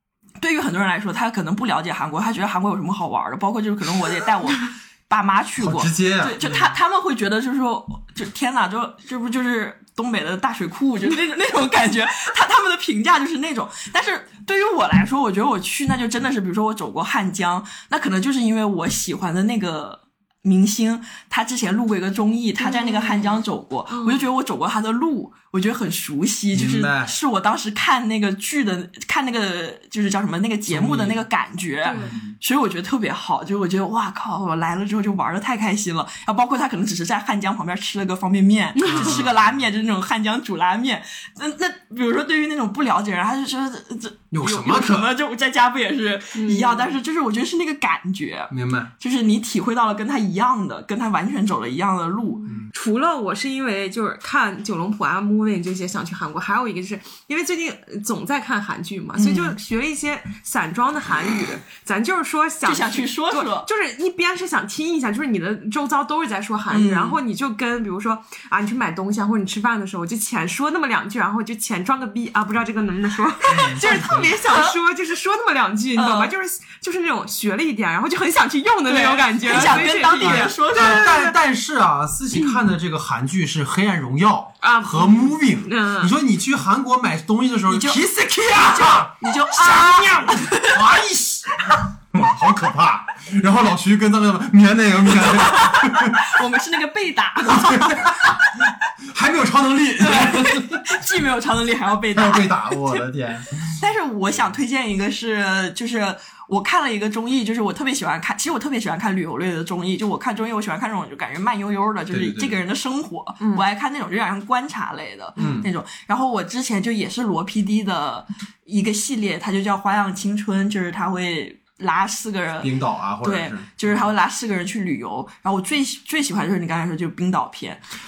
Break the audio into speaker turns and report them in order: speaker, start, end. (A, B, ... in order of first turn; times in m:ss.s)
0:00.4-0:52.5 A
0:05.6-0:06.7 B
0:22.6-0:24.3 C
0:26.5-0:27.1 B
0:30.7-0:31.2 B
0:31.8-0:32.2 C
0:32.0-0:32.4 B
0:38.8-0:39.2 C
0:38.9-0:39.6 B
0:44.3-0:45.1 B
0:46.3-0:47.0 C
0:48.5-0:48.9 B
0:52.5-0:52.7 B
0:52.7-1:20.5 C
0:59.2-0:59.6 A
1:02.6-1:03.7 A
1:06.7-1:07.2 A
1:13.5-1:14.4 B
1:13.8-1:14.8 A
1:16.0-1:16.3 A
1:18.9-1:21.4 A
1:19.5-1:36.4 B
1:24.6-1:26.1 C
1:27.7-1:30.9 A
1:35.2-1:38.4 A
1:37.4-1:38.4 B
1:39.1-1:41.0 B
1:40.0-1:43.1 A
1:42.1-1:43.8 B
1:43.8-2:07.8 A
1:52.1-1:52.6 B
1:55.4-1:55.7 B
2:02.6-2:04.1 B